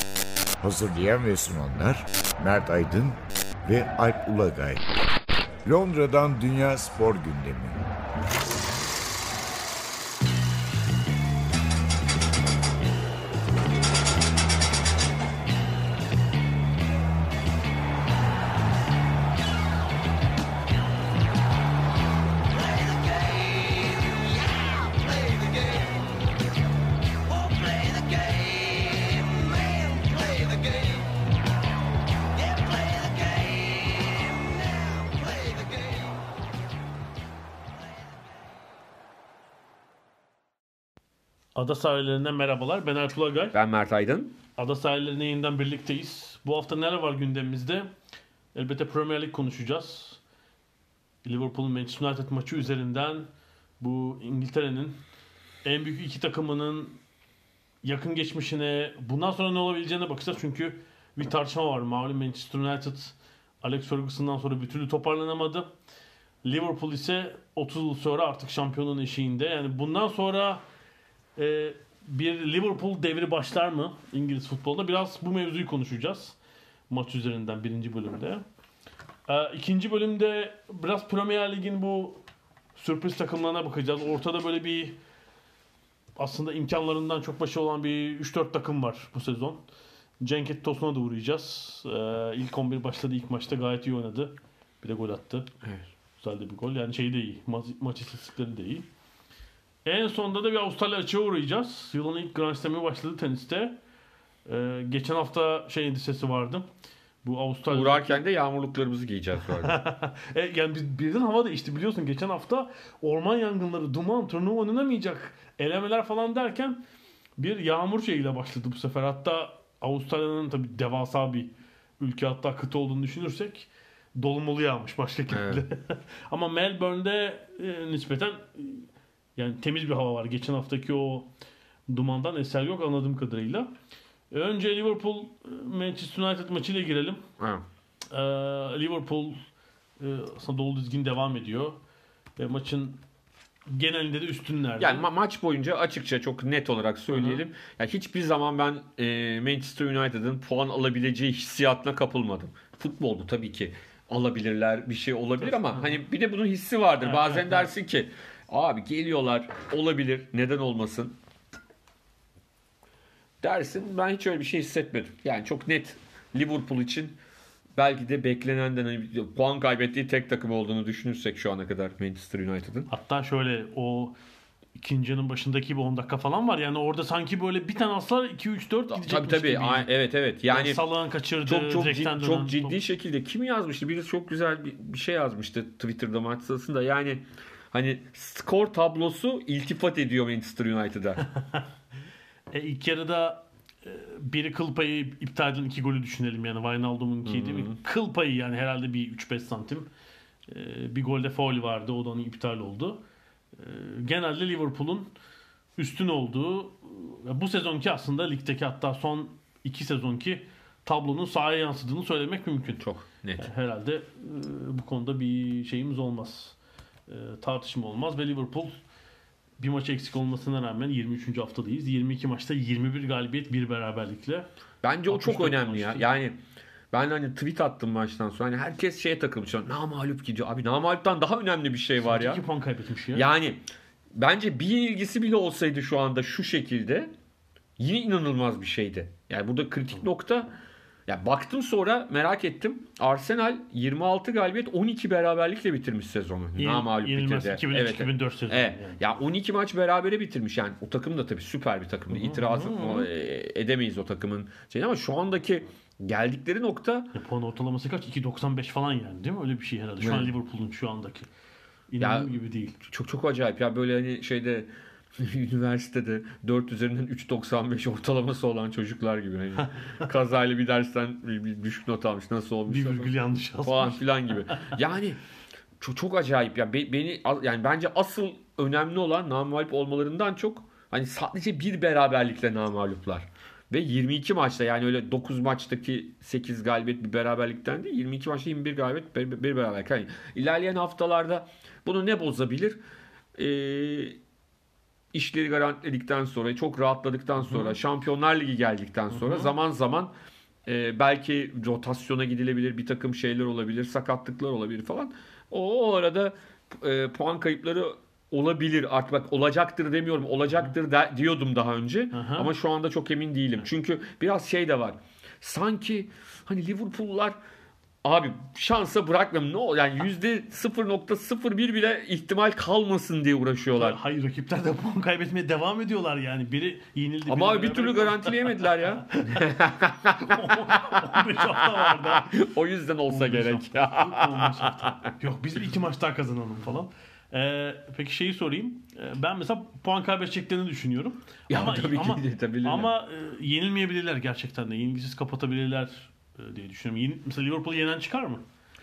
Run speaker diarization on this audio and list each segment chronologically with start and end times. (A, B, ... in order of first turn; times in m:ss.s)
0:00.6-0:04.8 A
0:05.6-0:07.8 A
0:41.5-0:43.6 B
0:43.5-0:44.3 C
0:44.6-0:47.9 B
0:48.5-0:50.2 B
0:51.2-0:53.3 B
0:53.8-0:55.0 B
0:55.6-0:57.0 B
0:57.8-1:05.7 B
1:06.4-1:10.6 B
1:11.4-1:16.4 B
1:16.9-1:18.4 B
1:19.3-1:22.2 B
1:22.7-1:25.0 B
1:26.2-1:29.6 B
1:30.2-1:35.5 B
1:36.2-1:38.9 B
1:39.8-1:43.8 B
1:44.4-1:46.6 B
1:47.2-1:48.2 B
1:47.7-1:49.8 C
1:49.5-1:56.8 B
1:57.4-2:11.3 B
2:05.3-2:05.6 C
2:11.9-2:13.7 B
2:14.3-2:17.2 B
2:17.4-2:17.6 C
2:18.1-2:19.4 B
2:20.0-2:21.8 B
2:22.4-2:23.0 B
2:23.7-2:25.0 B
2:24.8-2:41.1 C
2:27.1-2:27.4 B
2:37.0-2:37.7 B
2:43.4-2:47.2 C
2:47.8-2:52.9 C
2:52.9-2:54.2 B
2:54.8-2:59.9 B
2:58.9-3:00.8 C
3:00.5-3:02.8 B
3:01.4-3:11.2 C
3:11.3-3:11.6 B
3:12.5-3:19.9 B
3:17.2-3:17.8 C
3:20.5-3:23.0 B
3:23.5-3:25.1 B
3:25.8-3:32.8 B
3:32.8-3:33.5 C
3:33.4-3:36.6 B
3:37.1-3:38.8 B
3:39.6-3:44.5 B
3:44.8-3:46.4 C
3:45.0-3:46.0 B
3:46.9-3:52.4 C
3:52.0-3:53.3 B
3:53.1-3:53.6 C
3:54.1-3:57.1 C
3:57.8-4:00.5 C
4:01.1-4:17.1 C
4:06.6-4:09.1 B
4:12.1-4:13.1 B
4:17.1-4:21.3 B
4:20.0-4:20.3 C
4:21.9-4:22.8 B
4:22.0-4:22.3 C
4:22.8-4:35.2 C
4:32.7-4:34.8 B
4:35.8-4:52.8 C
4:53.4-4:54.2 C
4:55.1-5:00.1 C
4:57.5-4:57.7 B
4:59.1-4:59.5 B
5:00.6-5:17.4 C
5:12.1-5:12.5 B
5:18.0-5:24.0 C
5:23.8-5:29.5 B
5:27.3-5:35.0 C
5:30.1-5:32.3 B
5:33.1-5:48.4 B
5:41.5-5:42.9 C